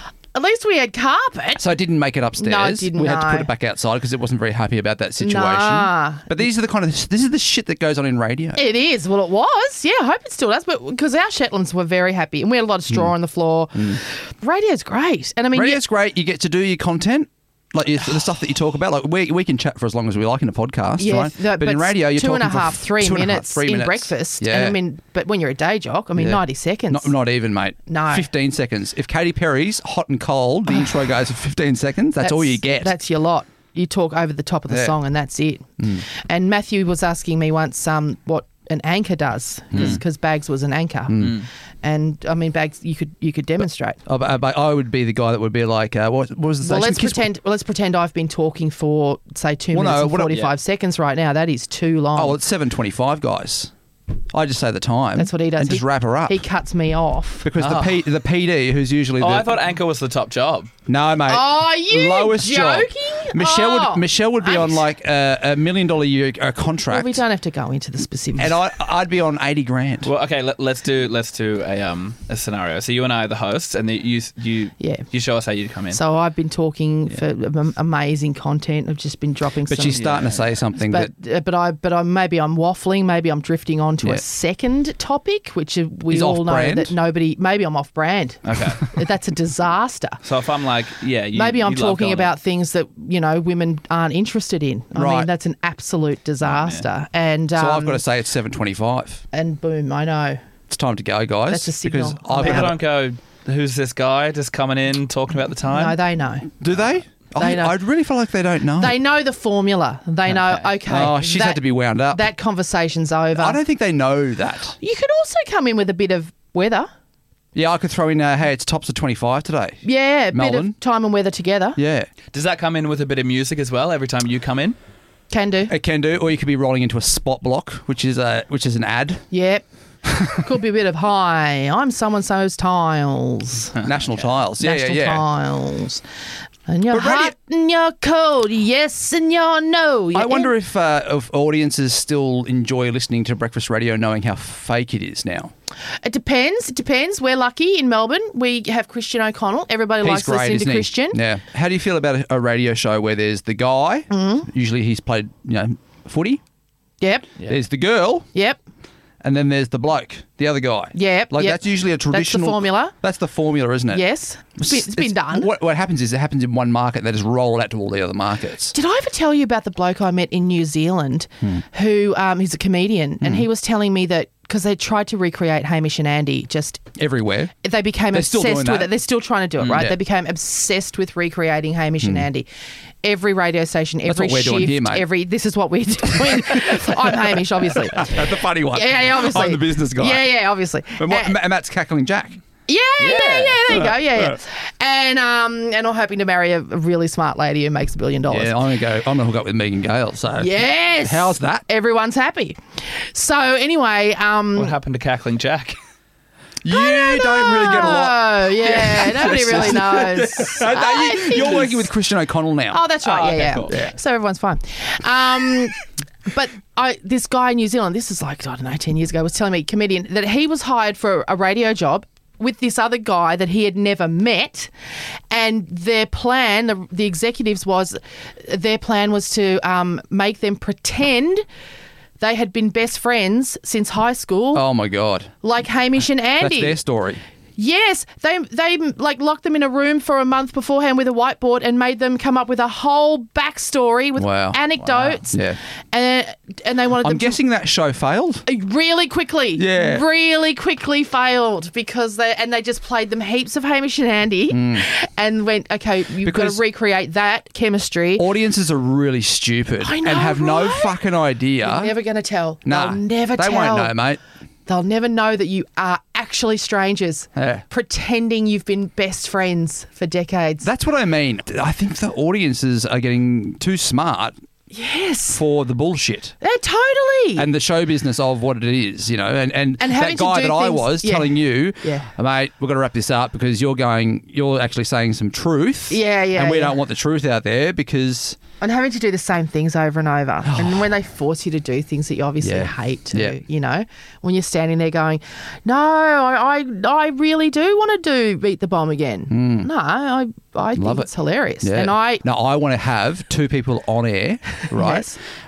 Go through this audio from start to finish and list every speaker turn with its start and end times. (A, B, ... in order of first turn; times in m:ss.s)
0:00.3-0:01.6 A
0:01.6-0:08.6 B
0:02.4-0:03.5 A
0:05.2-0:06.3 A
0:08.5-0:15.8 A
0:13.7-0:14.0 B
0:15.5-0:24.8 B
0:21.0-0:27.1 A
0:26.2-0:32.9 B
0:27.9-0:28.3 A
0:30.7-0:30.9 A
0:32.2-0:44.0 A
0:34.7-0:35.0 B
0:39.7-0:40.0 B
0:41.1-0:41.3 B
0:41.2-0:41.4 C
0:44.0-0:47.3 B
0:46.6-0:52.4 A
0:49.7-0:50.4 B
0:52.1-0:53.7 B
0:54.3-0:56.4 B
0:55.2-0:57.8 A
0:57.4-0:59.6 B
0:59.2-1:00.7 C
1:00.9-1:07.2 B
1:01.2-1:04.8 A
1:06.9-1:08.6 A
1:08.4-1:10.1 B
1:10.0-1:16.0 C
1:14.8-1:15.1 A
1:15.9-1:20.2 A
1:19.7-1:21.1 B
1:19.9-1:20.4 C
1:20.8-1:30.2 A
1:26.1-1:26.9 B
1:28.4-1:28.8 C
1:30.2-1:32.3 C
1:31.3-1:38.0 A
1:34.9-1:35.3 B
1:36.4-1:36.8 C
1:37.6-1:39.2 B
1:39.3-1:40.4 A
1:40.7-1:42.7 B
1:41.5-1:42.7 A
1:42.4-1:46.0 C
1:45.7-1:46.5 A
1:46.6-1:49.0 B
1:47.4-1:47.8 A
1:48.8-1:53.6 A
1:50.3-1:50.7 C
1:50.8-1:52.3 B
1:53.4-1:54.8 B
1:54.8-1:56.9 A
1:57.5-2:00.7 B
1:59.8-2:01.8 A
2:01.8-2:02.1 B
2:02.3-2:04.8 C
2:05.3-2:05.7 A
2:05.7-2:09.2 B
2:09.3-2:09.6 A
2:10.0-2:10.4 B
2:10.4-2:13.8 A
2:13.8-2:15.2 B
2:14.6-2:16.0 A
2:16.7-2:20.5 A
2:16.9-2:17.3 B
2:20.1-2:25.5 B
2:26.0-2:31.2 A
2:30.0-2:36.4 B
2:34.1-2:34.5 A
2:37.0-2:37.3 A
2:37.5-2:38.3 B
2:38.3-2:38.6 A
2:39.2-2:44.0 B
2:40.9-2:42.9 A
2:43.9-2:45.5 A
2:44.6-2:48.7 B
2:48.7-2:56.8 A
2:57.0-2:57.5 B
2:57.6-3:02.5 A
2:58.1-2:58.9 B
2:59.6-2:59.9 C
3:02.0-3:02.2 B
3:03.0-3:11.4 A
3:04.0-3:05.0 B
3:06.2-3:10.2 B
3:11.0-3:12.4 B
3:12.7-3:18.6 A
3:13.0-3:13.7 C
3:18.3-3:20.5 B
3:20.4-3:24.8 A
3:21.0-3:21.6 B
3:24.6-3:25.8 C
3:26.6-3:32.8 B
3:26.7-3:31.9 A
3:32.7-3:44.7 A
3:33.0-3:33.8 C
3:45.3-3:51.4 A
3:52.2-3:54.6 A
3:54.5-3:55.3 B
3:55.4-3:56.8 A
3:56.4-3:57.2 B
3:57.6-4:07.4 A
4:04.2-4:05.6 B
4:07.0-4:08.4 B
4:08.5-4:18.2 A
4:09.6-4:10.0 B
4:14.5-4:14.8 B
4:16.2-4:16.6 B
4:18.2-4:21.9 B
4:19.8-4:21.0 A
4:21.6-4:23.9 A
4:22.6-4:24.2 B
4:24.6-4:30.7 A
4:27.4-4:27.6 B
4:30.6-4:34.3 B
4:34.7-4:35.4 A
4:35.3-4:36.3 B
4:36.4-4:37.5 A
4:37.4-4:48.4 B
4:39.8-4:42.1 A
4:45.9-4:46.8 A
4:48.6-5:02.2 A
4:50.4-4:50.9 B
4:52.4-4:53.4 B
4:59.3-4:59.7 B
5:00.8-5:01.1 B
5:01.6-5:05.1 B
5:04.7-5:05.2 A